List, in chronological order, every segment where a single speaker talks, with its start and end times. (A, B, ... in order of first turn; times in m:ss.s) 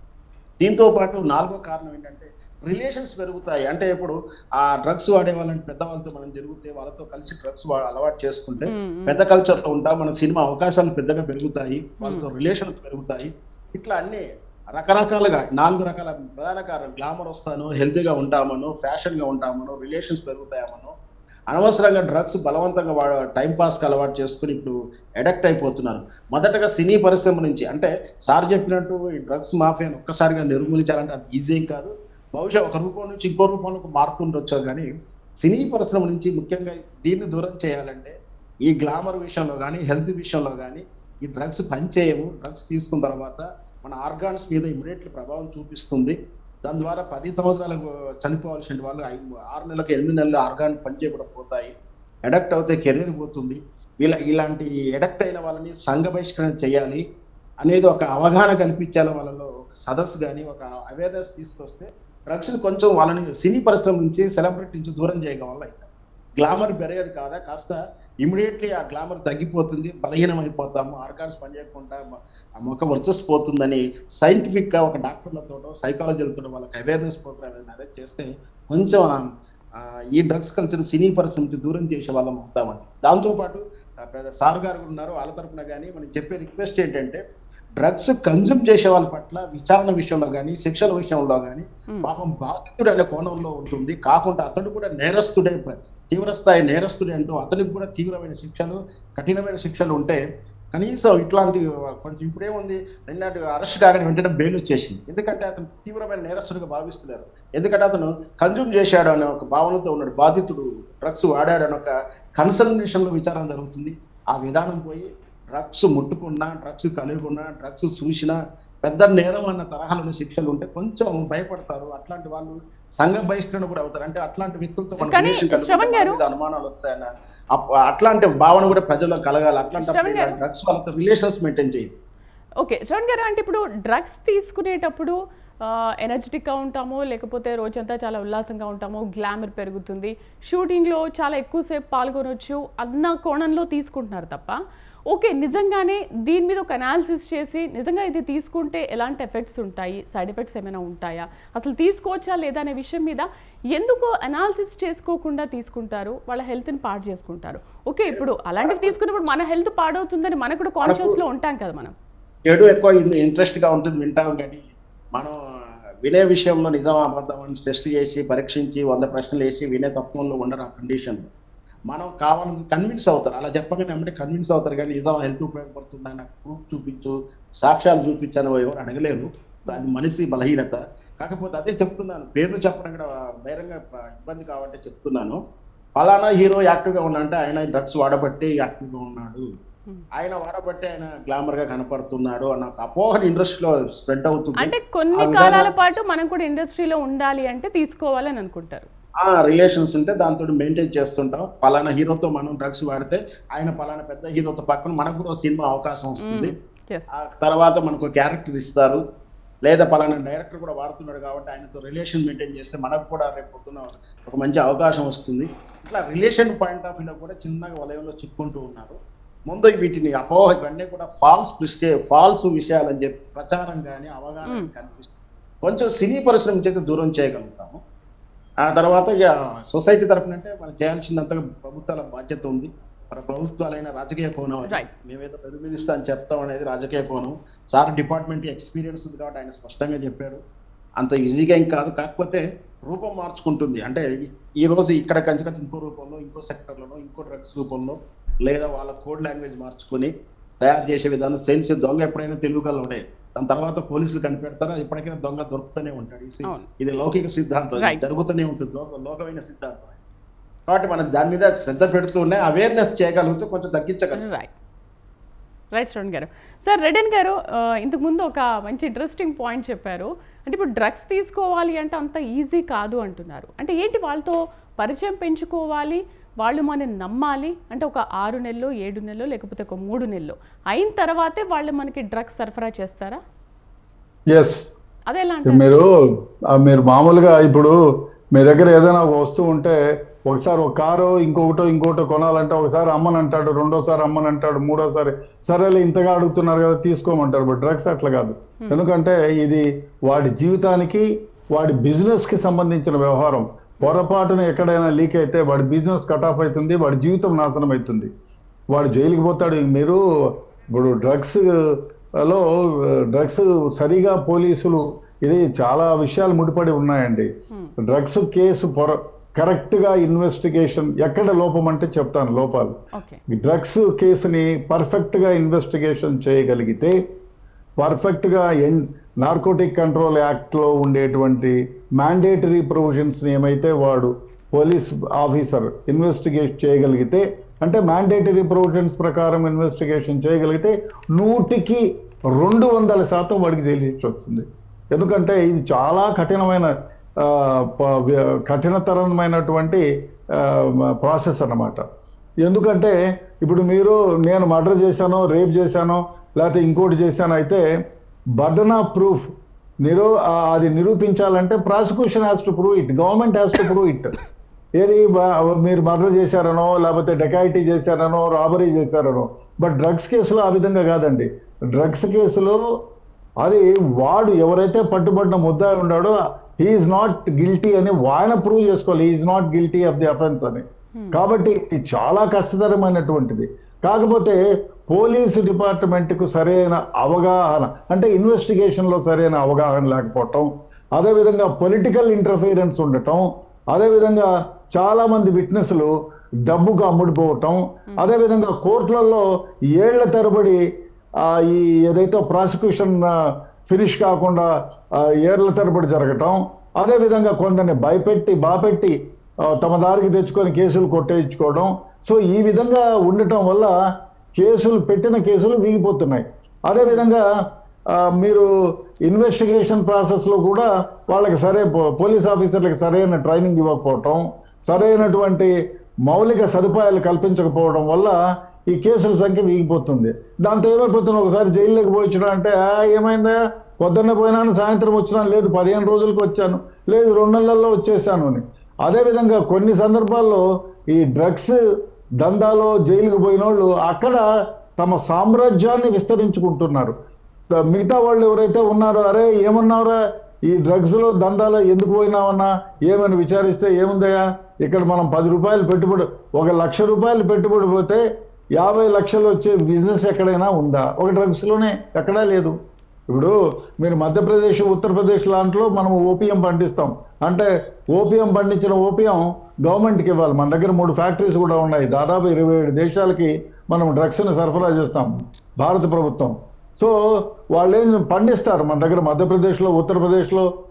0:00.6-0:20.9 A
0:08.6-0:09.2 B
0:12.0-0:12.3 B
0:21.5-0:34.9 A
0:35.4-0:51.7 A
0:52.2-0:57.0 A
0:57.6-1:05.9 A
1:06.4-1:12.0 A
1:12.6-1:19.3 A
1:19.8-1:27.2 A
1:27.8-1:40.2 A
1:40.7-2:11.9 A
2:05.0-2:06.2 B
2:09.8-2:10.4 B
2:12.6-2:41.9 B
2:38.1-2:39.0 A
2:40.8-2:41.2 A
2:42.5-2:45.3 A
2:46.0-2:51.3 A
2:51.9-3:05.4 A
3:06.0-3:09.4 A
3:10.2-3:15.7 A
3:14.6-3:18.9 B
3:19.2-3:26.5 A
3:26.2-3:27.0 B
3:27.1-3:29.0 A
3:29.6-3:45.1 A
3:45.6-3:47.8 A
3:48.6-4:00.4 A
4:01.0-4:20.0 A
4:17.8-4:18.0 B
4:20.7-4:24.2 A
4:24.2-4:24.5 B
4:25.7-4:43.2 B
4:44.3-4:44.7 C
4:45.1-4:45.8 B
4:45.5-4:45.9 C
4:46.6-4:47.7 C
4:48.3-4:49.8 C
4:50.3-5:08.1 C
5:08.7-5:10.0 C
5:10.7-5:11.4 C
5:13.1-5:17.3 C
5:17.9-5:22.7 C
5:22.9-5:23.2 B
5:23.3-5:27.0 C
5:27.8-5:41.8 C
5:42.4-5:46.7 C
5:47.2-5:49.8 C
5:50.4-5:51.8 C
5:52.4-5:57.6 C
5:58.4-5:59.2 C
5:59.8-6:04.1 C
6:04.8-6:12.6 C
6:13.4-6:35.9 C
6:36.5-6:39.2 C
6:39.8-6:40.6 C
6:41.2-6:43.1 C
6:43.7-6:44.5 C
6:45.0-6:48.9 C
6:49.5-6:53.7 C
6:54.4-6:57.2 C
6:58.2-6:58.5 C
6:59.1-7:05.5 C
7:04.8-7:05.1 B
7:06.1-7:08.1 C
7:08.7-7:20.4 C
7:20.9-7:21.6 C
7:22.2-7:24.2 C
7:24.8-7:26.9 C
7:27.7-7:30.0 C
7:30.5-7:38.0 C
7:38.6-7:42.5 C
7:43.1-7:56.9 C
7:57.5-8:00.5 C